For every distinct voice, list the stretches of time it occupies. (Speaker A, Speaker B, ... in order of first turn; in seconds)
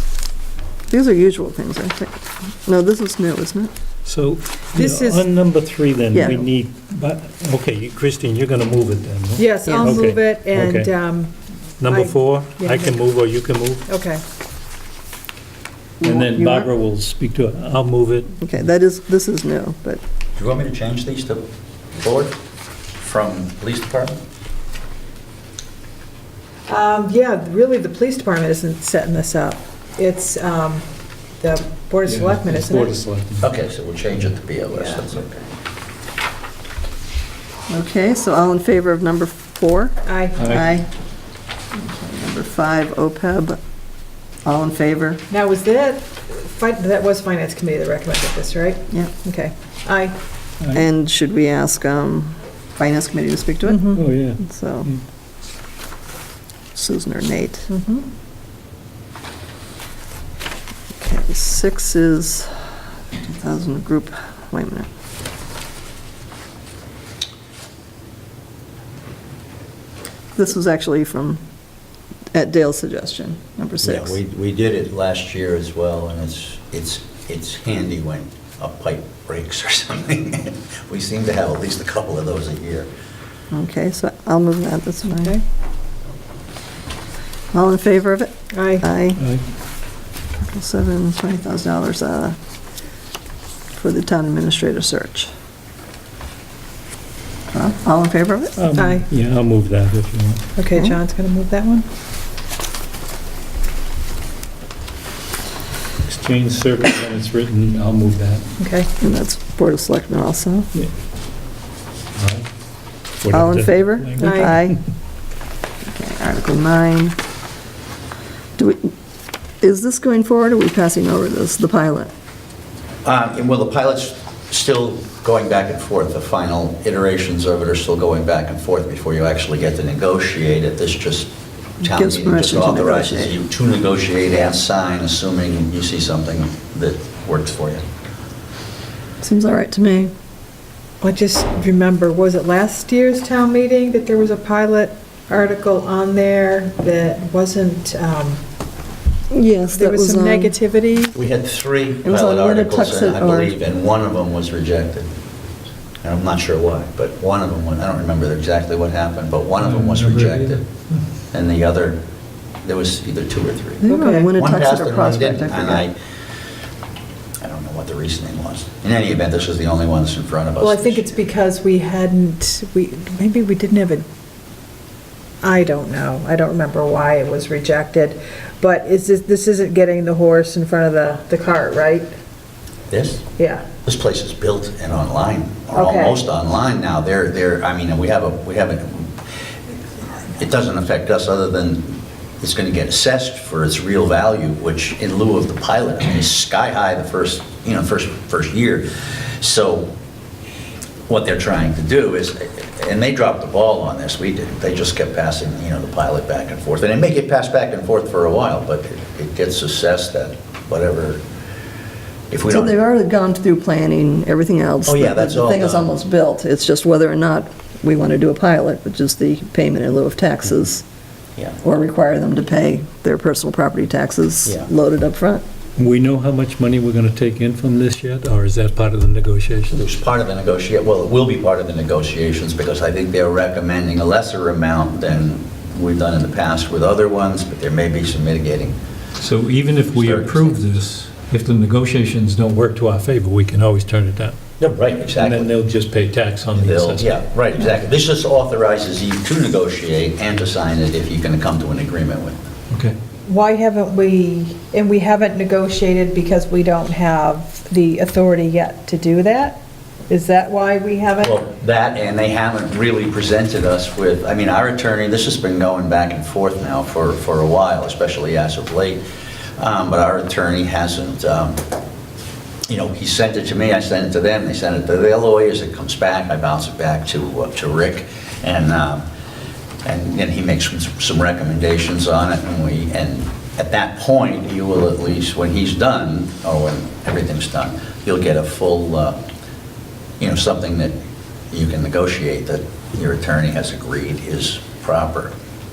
Speaker A: 0.9-3.7, 6.1-6.5, 9.7-10.0, 16.0-16.7, 18.4-20.0, 37.7-40.9, 41.7-43.6, 44.5-45.2, 50.7-54.9, 56.7-57.7, 61.0-62.5, 63.2-64.9, 70.4-71.4, 72.3-74.2, 83.5-85.4, 87.5-89.2, 90.4-92.4, 93.8-95.3, 97.5-98.6, 109.0-110.7, 113.3-114.8, 115.8-117.2, 118.6-118.9, 119.6-122.1, 131.8-133.4, 139.2-140.1, 149.3-150.6, 152.0-153.5, 163.8-165.9, 212.5-220.8, 221.6-225.4
Speaker B: 4.0-10.9, 11.8-13.8, 16.0-18.3, 32.0-33.5, 40.4-40.8, 53.9-55.0, 89.2-89.4, 98.6-100.4, 106.0-108.5, 112.2-112.5, 113.2-114.6, 159.6-160.6, 225.8-229.8, 239.2-244.4, 245.1-247.1, 252.7-253.0
Speaker C: 4.8-5.2, 9.4-11.3, 11.8-12.9, 13.9-14.2, 26.7-30.9, 31.4-33.0, 34.7-35.0, 40.0-40.4, 45.3-50.1, 53.6-54.0, 57.7-58.0, 88.5-88.9, 98.8-99.1, 100.6-101.9, 108.6-108.9, 114.2-114.6, 141.0-148.4, 149.7-151.2, 163.9-164.3, 170.6-174.1, 175.4-182.1, 183.4-183.7, 185.7-186.2, 253.3-259.6, 260.1-261.4
Speaker D: 20.4-22.4, 23.0-24.2, 33.4-35.4, 73.8-82.9, 123.0-137.8, 151.1-155.1, 156.0-160.6, 161.3-162.0, 162.6-163.8, 164.3-165.9, 167.4-171.1, 182.9-183.2, 183.8-189.1, 190.4-199.9, 201.1-211.2, 212.3-212.8, 214.9-215.9, 229.7-238.8, 240.0-240.6, 244.6-245.5, 246.6-252.4, 261.2-269.0, 269.6-271.6, 272.7-279.0, 279.9-289.2, 290.2-290.9, 291.5-295.3